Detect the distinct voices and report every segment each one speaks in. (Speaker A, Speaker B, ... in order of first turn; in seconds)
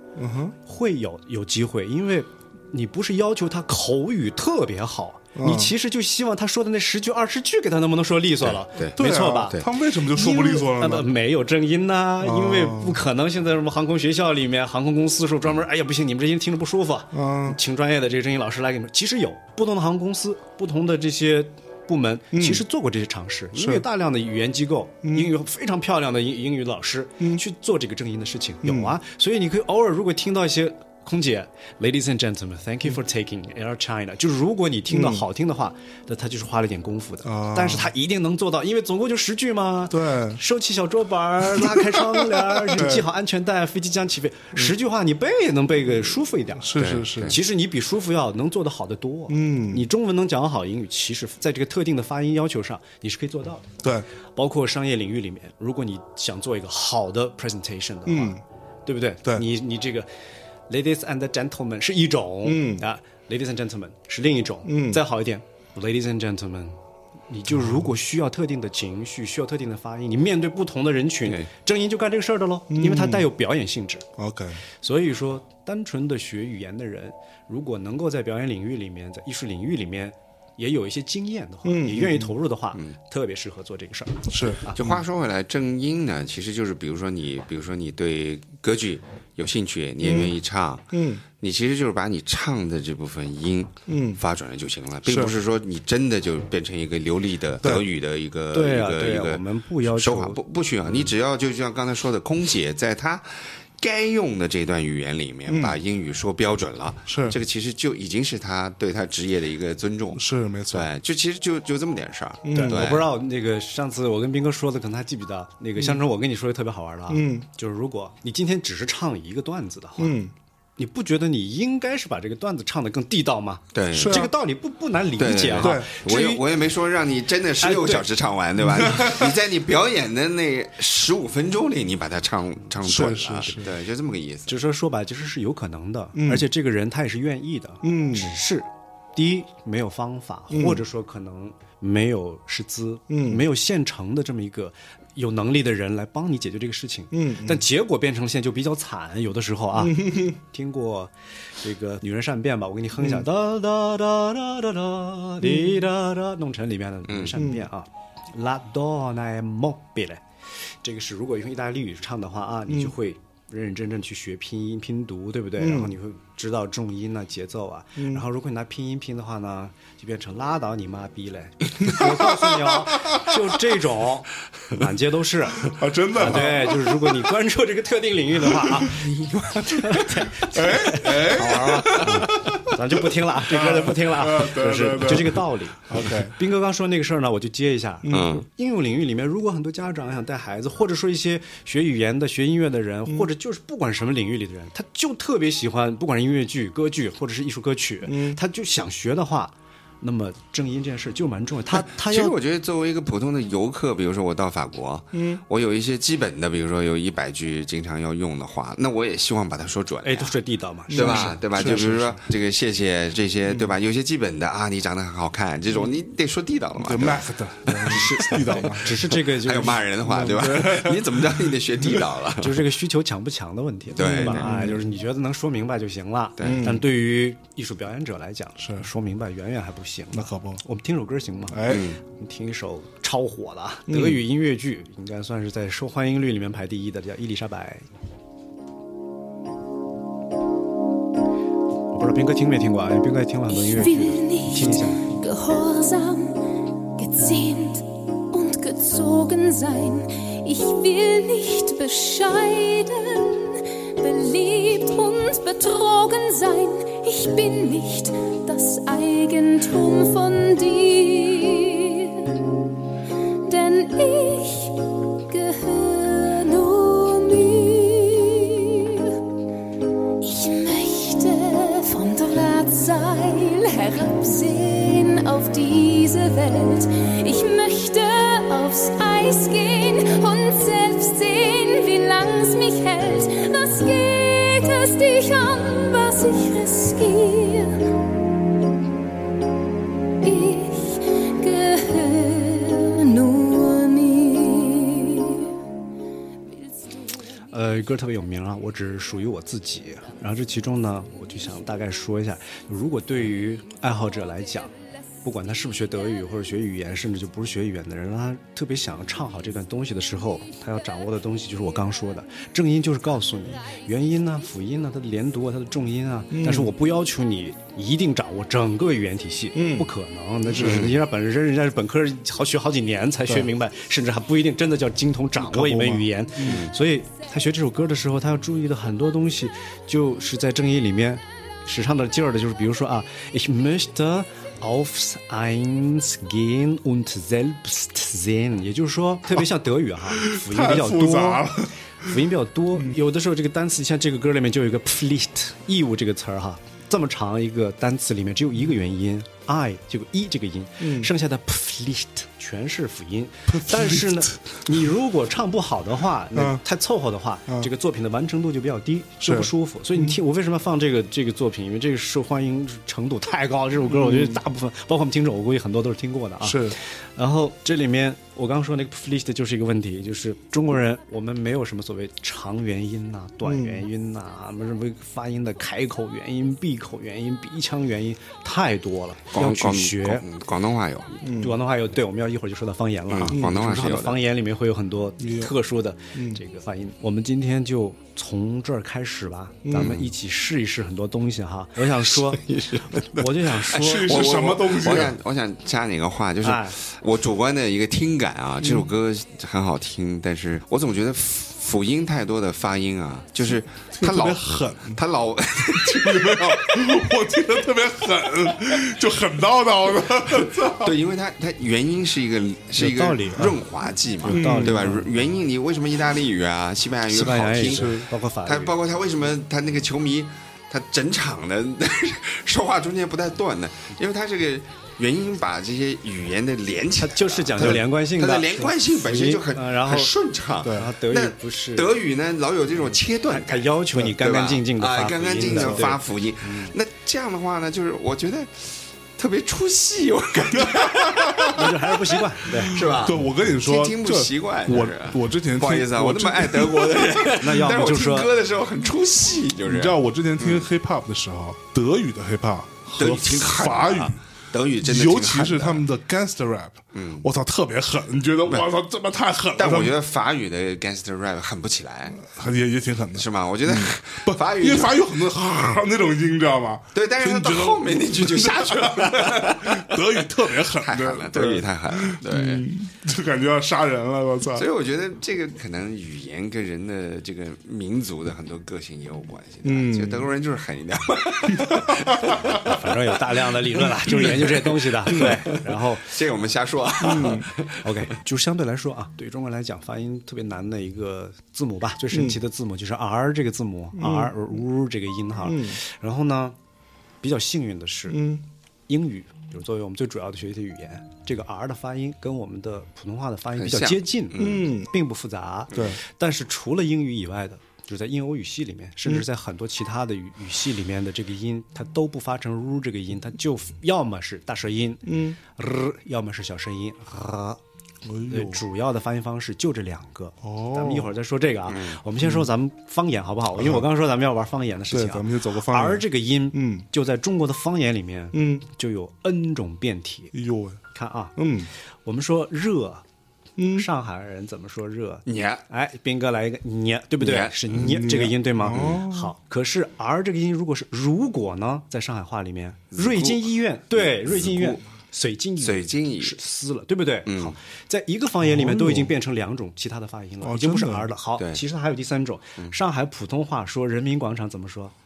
Speaker A: 0.1-0.5, 5.3-5.7, 8.9-11.1, 12.2-13.0, 17.1-17.6, 22.3-22.6, 23.5-23.8, 25.0-25.3, 28.6-28.9, 34.9-35.2, 37.2-37.9, 39.9-40.4, 41.5-43.0, 46.6-47.4, 49.3-49.9, 58.0-58.4, 62.4-62.8, 64.7-65.0, 67.5-67.8, 72.7-73.3, 74.2-74.6, 81.6-82.3, 84.3-84.7, 90.0-90.3, 90.9-91.2, 93.9-94.2, 95.0-95.3, 105.5-105.8, 107.1-107.4, 110.1-110.9, 112.4-112.9, 117.1-117.5, 120.0-120.3, 123.9-124.3, 125.6-125.9, 128.6-129.3, 132.8-133.7, 136.1-136.5, 137.8-138.3, 140.5-140.8, 143.1-143.4, 147.1-147.6, 149.8-150.4, 153.0-153.2, 155.4-155.9, 157.3-157.7, 165.6-165.9, 168.0-168.2, 171.8-173.5, 175.7-177.3, 178.6-179.1, 179.8-186.3, 188.0-188.4, 198.0-198.4, 205.1-205.4, 210.9-211.9, 216.8-219.2, 220.0-222.1, 224.0-224.8, 226.4-226.8, 228.6-228.9, 230.1-230.6, 231.5-231.9, 233.9-234.2, 316.3-316.7, 319.5-319.9, 320.5-320.9, 325.4-326.6, 340.1-342.1, 350.8-351.1, 353.5-354.3, 356.3-356.6, 359.2-360.1, 363.9-364.4, 366.4-366.8, 373.4-373.9, 381.2-381.6, 383.3-383.6, 385.2-385.5, 386.1-386.4, 389.6-390.0, 393.7-395.2, 398.6-398.9, 403.9-405.0, 405.7-410.9, 414.2-414.9, 417.6-418.1, 430.6-430.9, 435.5-435.9, 440.6-441.5, 442.6-447.5, 449.6-454.2, 454.8-460.0, 462.2-474.7, 479.6-480.3, 481.5-482.7, 484.0-484.5, 485.1-485.4, 487.0-487.5, 492.1-492.4, 493.9-494.4, 495.4-495.8, 498.1-498.4, 504.4-504.9, 505.7-506.0, 515.0-515.4, 518.0-518.6, 520.4-521.1, 522.2-522.5, 523.5-523.9, 524.9-526.9, 528.3-528.6, 530.3-530.8, 531.4-531.7, 533.6-533.9, 537.7-539.3, 548.4-549.1, 550.4-551.1
Speaker B: 0.6-53.7, 54.4-60.1, 60.7-66.8, 67.3-74.0, 74.8-85.0, 98.5-100.4, 112.5-120.2, 120.8-126.4, 127.6-128.1, 134.5-202.3, 210.0-212.3, 217.8-219.9, 222.4-237.8, 241.9-245.1, 297.5-341.4, 342.0-380.2, 381.2-394.4, 396.4-396.8, 412.8-413.6, 414.2-415.1, 417.1-418.8, 427.0-430.1, 430.6-431.9, 433.2-436.7, 441.5-442.8, 447.3-448.3, 482.6-486.2, 487.8-496.6, 497.2-498.3, 498.9-517.6, 518.2-530.3, 530.9-531.4, 532.0-533.0, 533.7-554.9
Speaker C: 8.4-9.0, 46.8-47.4, 84.8-90.9, 91.4-113.1, 123.7-124.2, 125.2-134.6, 157.1-157.4, 188.1-188.4, 201.9-210.3, 210.9-218.7, 219.2-222.7, 223.9-224.6, 226.4-226.7, 231.7-232.0, 320.6-320.9, 326.4-326.7, 379.3-381.1, 383.1-384.2, 389.7-390.1, 392.1-393.2, 393.7-407.0, 410.5-441.6, 442.7-450.7, 453.0-455.8, 456.9-457.3, 459.6-462.2, 463.1-465.0, 466.9-472.7, 474.5-482.8, 484.3-488.1, 503.6-504.6, 521.7-522.0, 535.3-535.6, 537.2-537.6, 538.7-539.0, 542.9-544.8, 545.6-546.4, 547.2-547.5, 551.4-551.6
Speaker D: 243.5-246.4, 246.9-262.5, 263.4-269.1, 270.2-287.9, 290.2-295.5